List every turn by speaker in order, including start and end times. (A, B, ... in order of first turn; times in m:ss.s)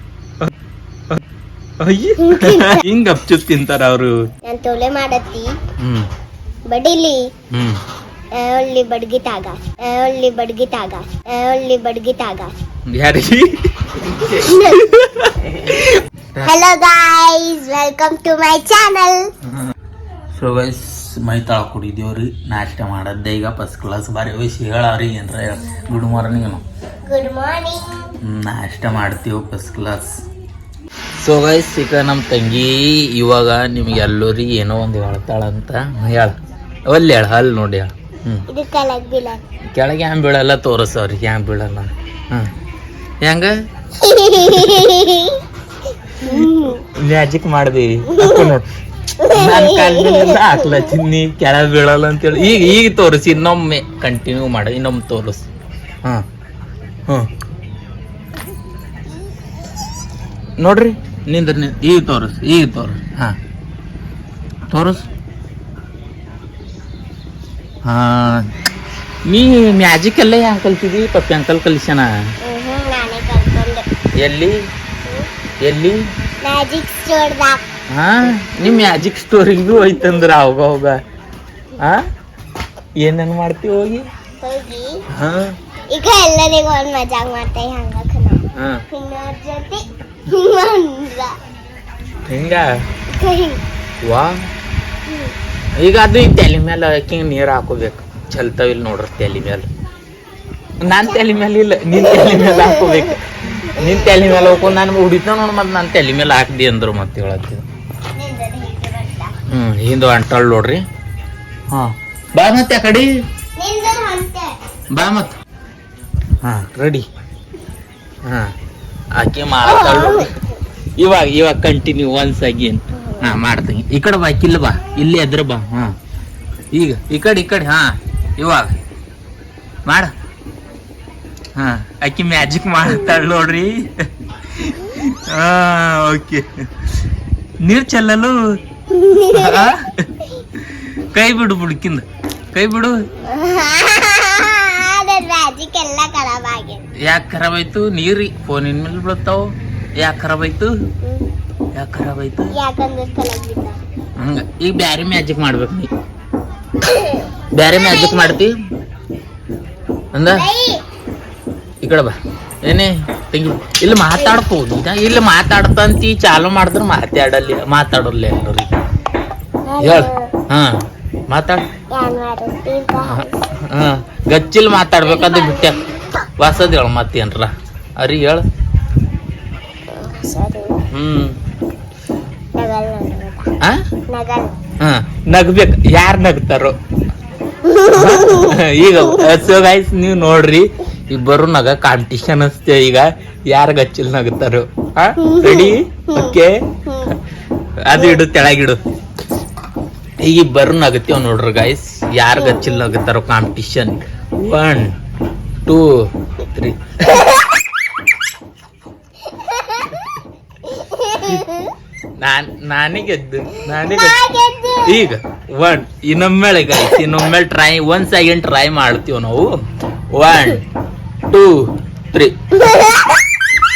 0:01.8-0:04.2 A
0:02.2-0:02.8 B
0:04.4-0:05.5 B
0:05.8-0:06.1 A
0:06.7-0:07.3 B
0:07.5-0:07.8 A
0:08.3-0:12.5 B
0:12.9-0:16.5 A
0:14.2-0:14.8 B
0:16.4-0:19.3 B
0:20.3-0:26.6 A
0:27.1-0:28.1 B
0:28.2-0:30.2 A
0:31.2-0:36.4 A
0:36.9-0:38.4 A
0:38.5-0:39.4 B
0:39.7-0:42.5 A
0:43.2-0:43.5 A
0:44.0-0:45.4 B
0:44.4-0:44.8 A
0:46.2-0:46.8 B
0:46.2-0:48.7 A
0:48.1-0:48.5 B
0:49.2-0:50.9 B
0:49.3-0:55.4 A
1:00.6-1:03.4 A
1:04.7-1:05.1 A
1:07.8-1:08.4 A
1:09.2-1:12.1 A
1:12.4-1:13.8 B
1:14.2-1:14.6 A
1:15.6-1:16.0 A
1:16.4-1:17.6 B
1:17.9-1:21.0 A
1:21.8-1:22.0 A
1:23.0-1:24.0 A
1:24.4-1:25.0 B
1:25.1-1:25.6 A
1:25.9-1:31.3 B
1:28.6-1:28.8 A
1:32.3-1:32.7 A
1:33.1-1:33.6 B
1:34.0-1:34.5 A
1:35.1-1:35.3 B
1:35.8-1:39.7 A
1:40.8-1:47.6 A
1:40.9-1:41.2 B
1:41.9-1:43.2 B
1:43.8-1:44.6 B
1:48.1-1:49.3 B
1:49.5-1:50.8 A
1:51.7-1:53.1 A
1:53.6-1:54.5 B
1:54.9-1:55.4 A
1:56.4-1:57.0 A
1:58.2-1:58.5 A
1:59.1-2:00.3 A
1:59.6-2:00.4 B
2:01.0-2:05.9 A
2:02.9-2:03.4 B
2:06.7-2:08.7 A
2:09.8-2:10.1 A
2:11.5-2:16.9 A
2:17.6-2:18.6 A
2:18.9-2:19.7 B
2:19.3-2:23.0 A
2:23.2-2:26.8 B
2:27.0-2:30.7 A
2:31.7-2:32.5 A
2:32.5-2:33.8 B
2:34.2-2:35.9 A
2:36.8-2:37.2 B
2:37.5-2:38.5 A
2:37.8-2:38.3 B
2:40.1-2:40.5 A
2:40.3-2:40.8 B
2:41.8-2:48.7 A
2:49.7-2:50.3 B
2:49.8-2:51.6 A
2:51.9-2:53.4 B
2:53.0-2:58.4 A
2:59.9-3:00.8 B
3:00.9-3:01.4 A
3:02.6-3:03.4 B
3:04.1-3:04.5 B
3:04.8-3:06.8 A
3:07.6-3:09.3 B
3:07.9-3:16.6 A
3:15.2-3:17.1 B
3:17.8-3:18.8 A
3:17.9-3:18.2 B
3:20.2-3:24.9 A
3:22.3-3:22.8 B
3:25.6-3:27.3 A
3:29.2-3:30.1 B
3:30.6-3:31.7 B
3:32.2-3:34.2 A
3:33.6-3:35.0 B
3:34.8-3:39.6 A
3:40.1-3:40.6 A
3:41.3-3:42.4 A
3:42.6-3:43.2 B